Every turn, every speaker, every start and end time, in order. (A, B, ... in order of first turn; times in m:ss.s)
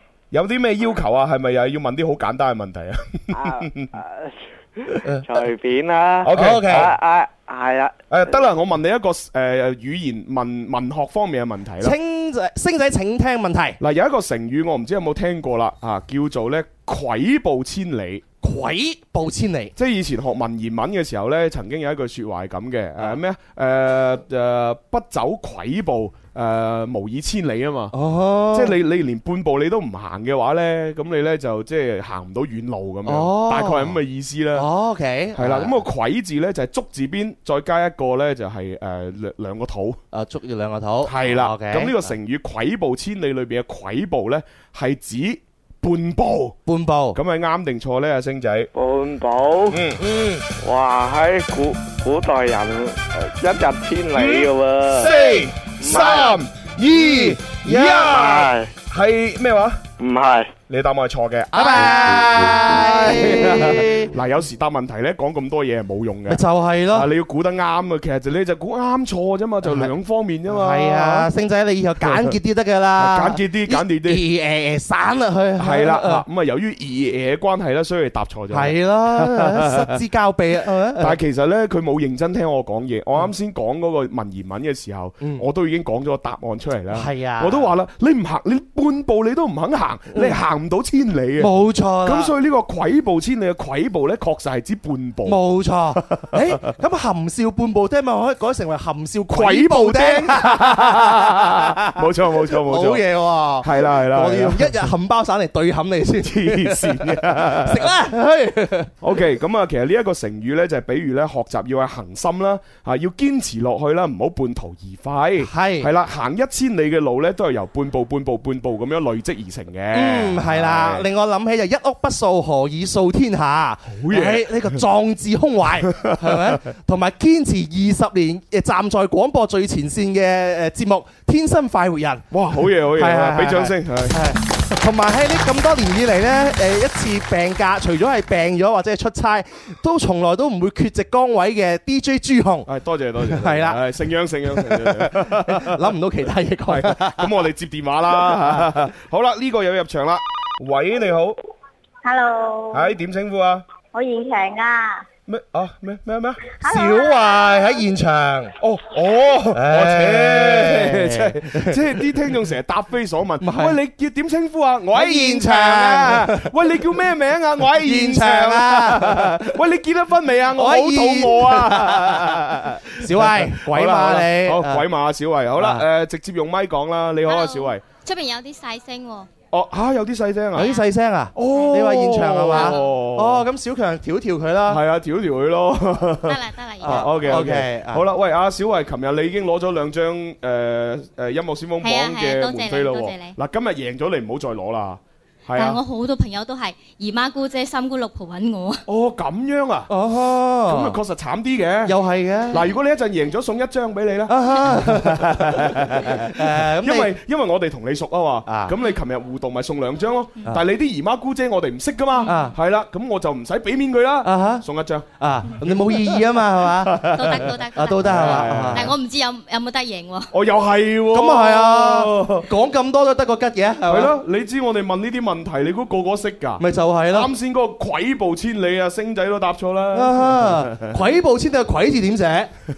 0:00.3-0:04.0 A
0:03.3-0:08.4 B
0:06.2-0:07.0 A
0:06.3-0:06.9 C
0:08.1-0:12.0 A
0:11.8-0:13.8 C
0:13.8-0:18.2 A
0:18.4-0:19.7 C
0:19.8-0:27.9 A
0:27.9-0:28.8 C
0:28.5-0:34.7 A
0:33.1-0:34.0 C
0:34.6-0:35.8 C
0:35.4-0:40.0 A
0:40.1-0:42.1 C
0:41.0-0:46.6 A
0:46.7-0:47.2 C
0:47.1-0:48.7 A
0:48.8-0:49.8 B
0:49.7-0:50.4 A
0:50.5-0:55.2 B
0:54.1-0:59.8 A
0:55.8-0:56.4 B
0:56.9-0:58.0 C
0:58.0-0:58.7 B
1:00.0-1:00.6 B
1:00.7-1:11.3 A
1:01.5-1:04.1 C
1:06.3-1:07.1 C
1:09.6-1:09.9 C
1:10.5-1:16.2 C
1:12.0-1:12.4 A
1:13.0-1:14.2 A
1:15.6-1:20.0 A
1:18.5-1:21.2 C
1:21.0-1:31.5 A
1:26.9-1:27.7 C
1:30.1-1:30.4 C
1:31.4-1:32.3 C
1:32.0-1:35.4 A
1:35.3-1:48.9 C
1:36.0-1:36.6 A
1:39.3-1:43.1 A
1:43.6-1:44.9 A
1:46.2-1:47.9 A
1:49.0-2:01.1 A
1:55.4-1:55.9 C
1:59.9-2:12.3 C
2:03.9-2:04.8 A
2:05.9-2:06.6 A
2:12.3-2:14.2 A
2:12.9-2:22.7 C
2:22.7-2:26.0 A
2:23.2-2:23.8 C
2:24.5-2:27.4 C
2:26.7-2:31.4 A
2:28.2-2:28.7 C
2:32.0-2:32.9 D
2:32.7-2:33.6 A
2:33.9-2:35.0 D
2:35.3-2:36.4 A
2:36.6-2:37.8 D
2:36.6-2:38.5 C
2:38.6-2:57.8 A
2:39.5-2:41.8 C
2:43.4-2:43.8 C
2:44.9-2:46.5 C
2:47.8-2:49.6 C
2:50.6-2:54.8 C
2:55.6-2:55.8 C
2:57.3-2:59.3 E
2:59.5-3:00.8 A
3:00.6-3:04.8 C
3:00.6-3:00.9 E
3:01.4-3:03.5 A
3:02.5-3:02.8 E
3:04.7-3:15.8 A
3:06.2-3:07.3 E
3:06.8-3:08.0 C
3:11.8-3:13.4 E
3:15.6-3:18.8 E
3:18.9-3:19.9 A
3:19.9-3:21.0 C
3:20.7-3:22.0 A
3:21.9-3:22.6 C
3:22.5-3:35.1 A
3:24.3-3:27.1 C
3:28.5-3:28.8 C
3:32.3-3:32.6 C
3:34.2-3:34.6 C
3:35.2-3:38.9 C
3:35.7-3:39.0 A
3:37.1-3:40.3 E
3:40.3-3:42.5 A
3:41.1-3:44.2 C
3:43.9-3:51.0 A
3:46.6-3:47.3 C
3:49.9-3:52.5 C